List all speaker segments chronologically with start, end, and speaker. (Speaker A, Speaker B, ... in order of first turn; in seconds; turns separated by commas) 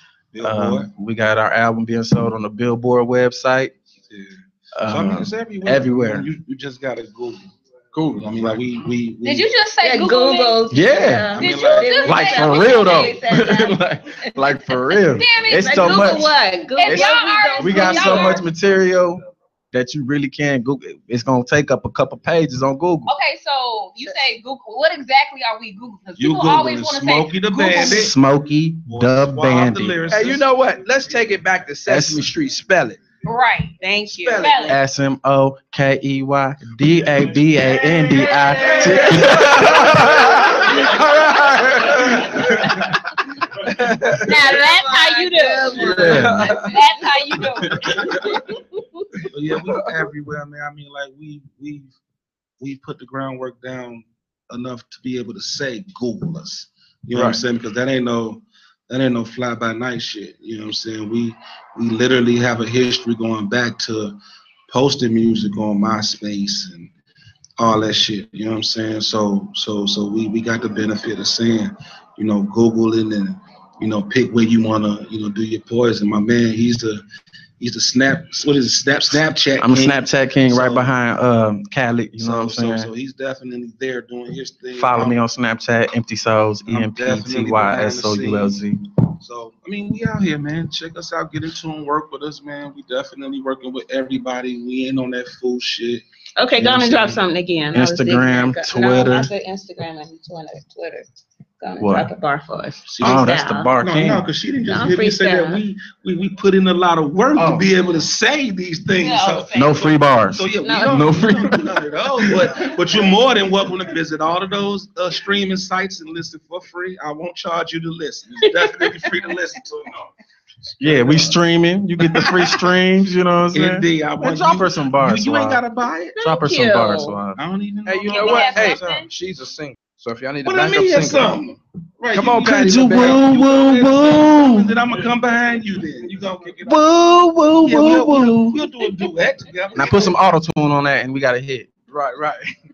Speaker A: 0.3-0.9, Speaker B: 0.4-3.7, Speaker A: 4.1-7.5, Speaker B: 4.8-6.3, Speaker B: 8.0-8.2, Speaker A: 8.2-9.5, Speaker C: 9.2-10.6, Speaker D: 9.8-13.8, Speaker B: 10.7-11.3, Speaker A: 11.3-12.1, Speaker C: 11.3-13.2, Speaker B: 12.0-16.3, Speaker C: 15.1-18.4, Speaker D: 15.5-18.4, Speaker B: 16.9-19.2, Speaker B: 19.7-23.1, Speaker C: 23.1-28.1, Speaker A: 26.2-28.2, Speaker B: 27.7-30.0, Speaker A: 28.9-30.5, Speaker E: 30.1-33.0, Speaker B: 31.9-32.2, Speaker C: 33.2-33.8, Speaker D: 33.8-34.7, Speaker E: 34.2-34.8, Speaker C: 34.3-34.8, Speaker B: 34.7-40.3, Speaker C: 37.9-39.1, Speaker D: 38.4-38.8, Speaker E: 38.8-42.6, Speaker E: 43.6-44.4, Speaker C: 44.2-47.8, Speaker D: 44.3-47.1, Speaker E: 45.8-46.7, Speaker B: 45.9-46.4, Speaker A: 49.3-51.9, Speaker A: 52.6-64.2, Speaker A: 64.7-66.9, Speaker A: 67.6-77.0, Speaker A: 77.6-80.9, Speaker B: 79.6-82.9, Speaker A: 82.2-85.2, Speaker B: 84.8-88.8, Speaker A: 86.7-88.6, Speaker A: 89.2-96.0, Speaker D: 96.4-101.0, Speaker B: 96.6-97.2, Speaker B: 97.7-99.3, Speaker D: 101.6-103.7, Speaker B: 101.8-102.1, Speaker A: 102.8-120.0, Speaker B: 103.0-104.3, Speaker D: 104.7-105.6, Speaker B: 107.3-107.7, Speaker C: 109.0-109.9, Speaker B: 109.5-112.5, Speaker D: 110.6-110.9, Speaker B: 120.8-125.6, Speaker A: 120.8-121.3, Speaker A: 122.0-122.7, Speaker A: 123.5-126.2, Speaker B: 126.2-127.4, Speaker D: 126.2-127.2, Speaker A: 127.3-129.0, Speaker E: 127.8-131.4, Speaker C: 128.0-129.1, Speaker A: 130.4-140.2, Speaker E: 132.1-133.3, Speaker B: 132.6-134.7, Speaker B: 136.6-138.6, Speaker B: 139.8-141.7, Speaker E: 141.9-142.4